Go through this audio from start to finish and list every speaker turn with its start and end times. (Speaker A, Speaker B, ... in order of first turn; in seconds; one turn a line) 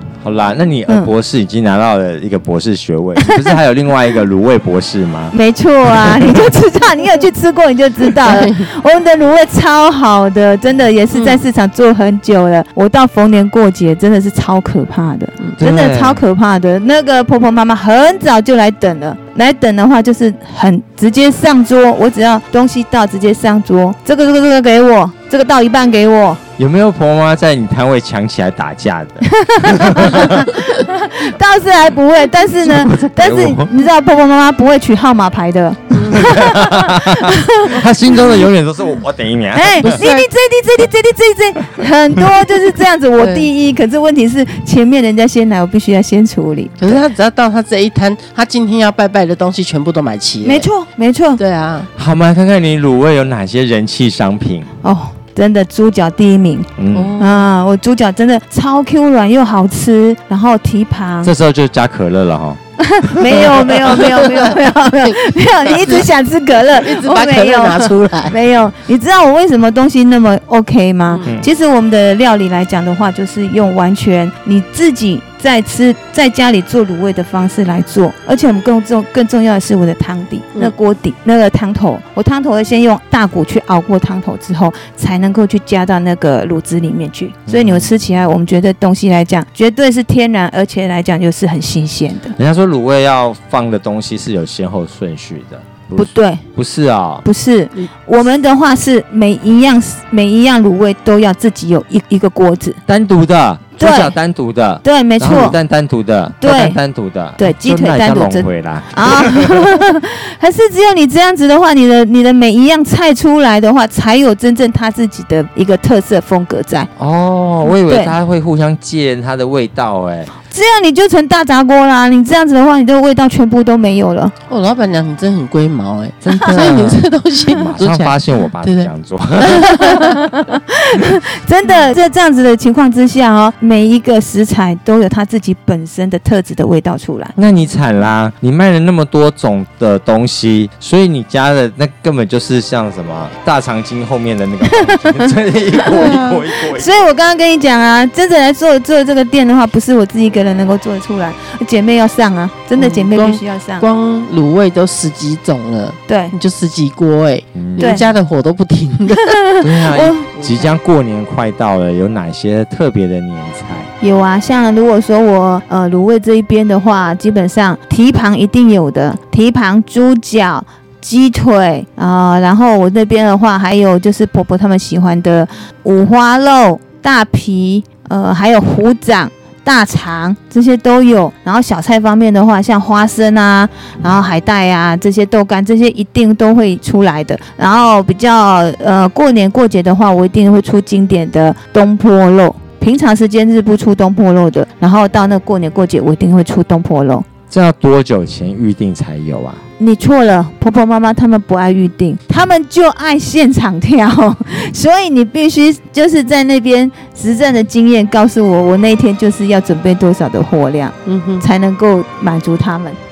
Speaker A: 0.2-5.3
Speaker B: 5.3-26.4
Speaker A: 5.9-6.4
Speaker C: 8.2-8.6
Speaker C: 11.1-11.4
Speaker A: 15.6-16.2
Speaker A: 26.6-30.5
Speaker B: 29.2-37.8
Speaker A: 32.6-33.7
Speaker A: 36.1-40.0
Speaker B: 39.5-46.8
Speaker C: 39.8-40.3
Speaker C: 43.2-43.5
Speaker C: 46.8-50.7
Speaker B: 50.4-51.4
Speaker C: 51.4-51.9
Speaker A: 52.0-54.7
Speaker B: 54.8-61.3
Speaker A: 56.8-57.2
Speaker C: 56.9-57.5
Speaker A: 61.2-64.0
Speaker B: 62.8-92.4
Speaker C: 63.8-68.4
Speaker C: 71.1-71.3
Speaker A: 87.5-87.9
Speaker A: 92.4-97.3
Speaker B: 96.0-96.4
Speaker B: 97.2-102.8
Speaker A: 102.9-109.8
Speaker B: 103.8-104.2
Speaker B: 104.8-105.6
Speaker B: 106.4-106.8
Speaker B: 107.4-116.9
Speaker A: 117.0-120.3
Speaker B: 117.8-118.1
Speaker B: 120.5-124.3
Speaker C: 124.5-130.2
Speaker A: 126.2-127.0
Speaker A: 127.6-129.9
Speaker B: 129.8-137.3
Speaker A: 137.4-146.9
Speaker B: 144.7-145.8
Speaker C: 145.9-146.4
Speaker B: 146.7-153.9
Speaker C: 152.8-159.4
Speaker B: 156.1-156.3
Speaker A: 157.6-158.0
Speaker B: 157.8-158.0
Speaker B: 159.3-160.3
Speaker A: 159.6-163.9
Speaker C: 160.4-160.7
Speaker B: 164.0-197.3
Speaker A: 197.5-199.6
Speaker B: 199.8-213.0
Speaker C: 211.1-211.5